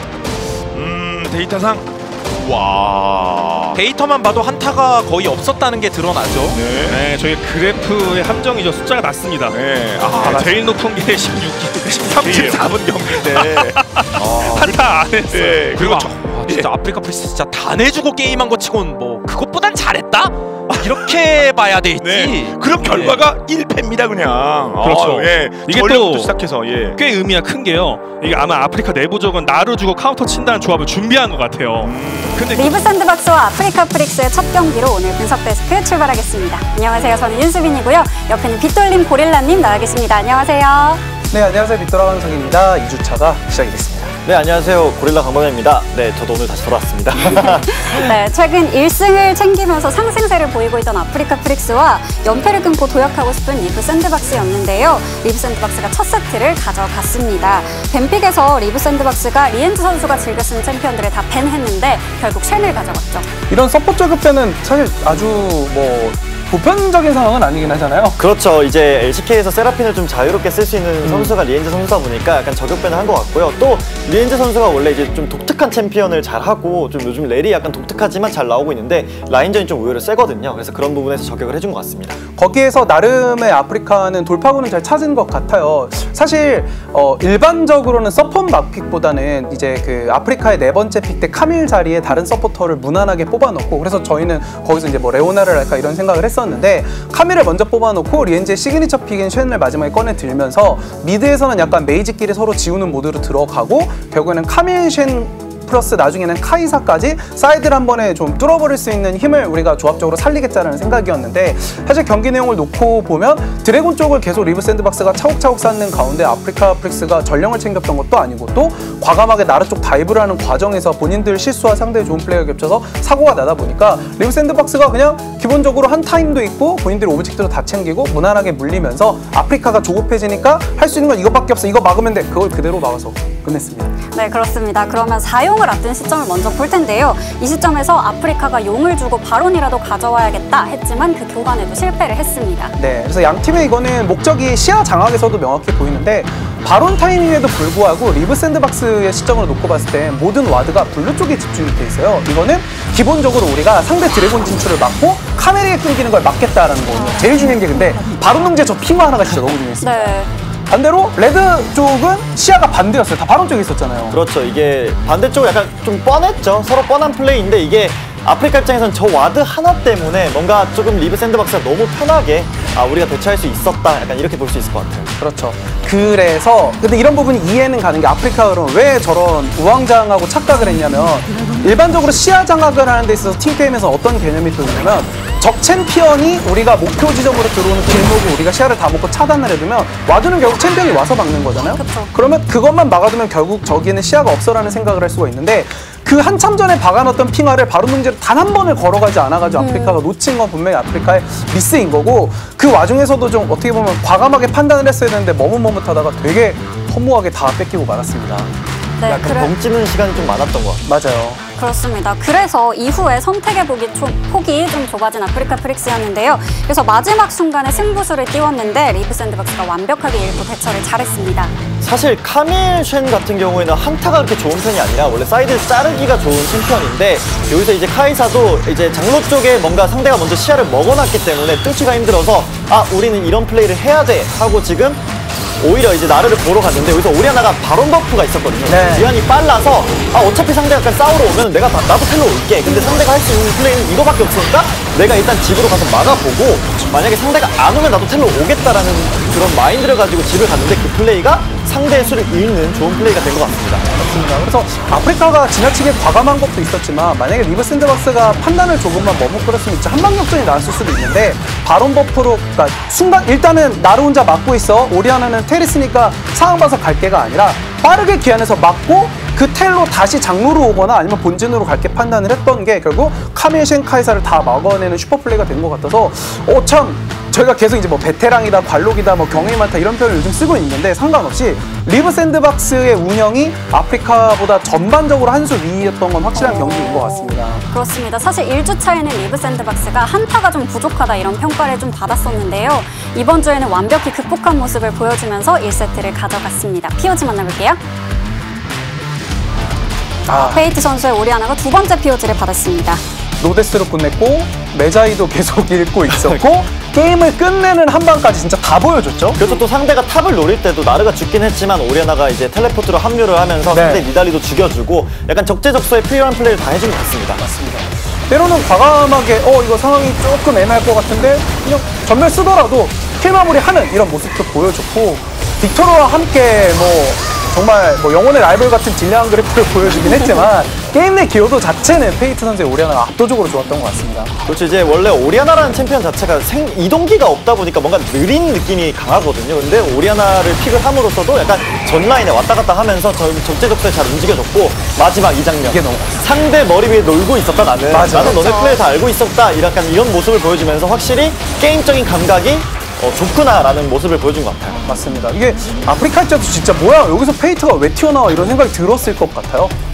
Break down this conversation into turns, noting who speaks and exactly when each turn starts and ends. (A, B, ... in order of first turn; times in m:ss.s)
0:00.7-0:03.8 A
0:03.7-0:06.7 B
0:06.5-0:07.0 A
0:06.8-0:09.6 C
0:09.5-0:10.6 A
0:10.1-0:15.7 C
0:11.8-0:16.7 A
0:15.7-0:23.2 B
0:20.7-0:21.2 A
0:22.0-0:27.0 A
0:24.8-0:26.4 C
0:27.0-0:32.8 C
0:31.8-0:32.5 A
0:32.5-0:41.0 D
0:41.3-0:44.1 E
0:44.2-0:48.2 F
0:47.2-1:03.2 D
1:03.5-1:08.2 E
1:08.2-1:22.2 F
1:11.0-1:11.4 E
1:22.3-2:14.0 E
2:14.1-2:22.7 D
2:22.8-2:44.2 E
2:39.8-2:40.3 D
2:44.1-2:55.1 F
2:55.2-3:28.5 E
3:11.7-3:12.1 D
3:19.5-3:20.0 D
3:29.0-3:29.5 D
3:29.0-3:30.8 F
3:30.8-3:31.4 E
3:31.6-3:41.5 D
3:41.8-3:55.0 F
3:55.6-4:13.9 F
3:58.7-3:59.1 E
4:13.9-4:47.6 E
4:46.4-4:57.8 D
5:00.3-5:00.7 E
5:00.3-5:03.0 D
5:03.4-5:09.4 E
5:06.1-5:06.4 C
5:09.3-5:17.4 F
5:13.7-5:14.0 E
5:17.4-5:34.3 E
5:34.4-5:54.8 F
5:45.6-5:46.2 E
5:47.9-5:48.4 E
5:48.3-5:48.8 D
5:54.8-5:59.7 E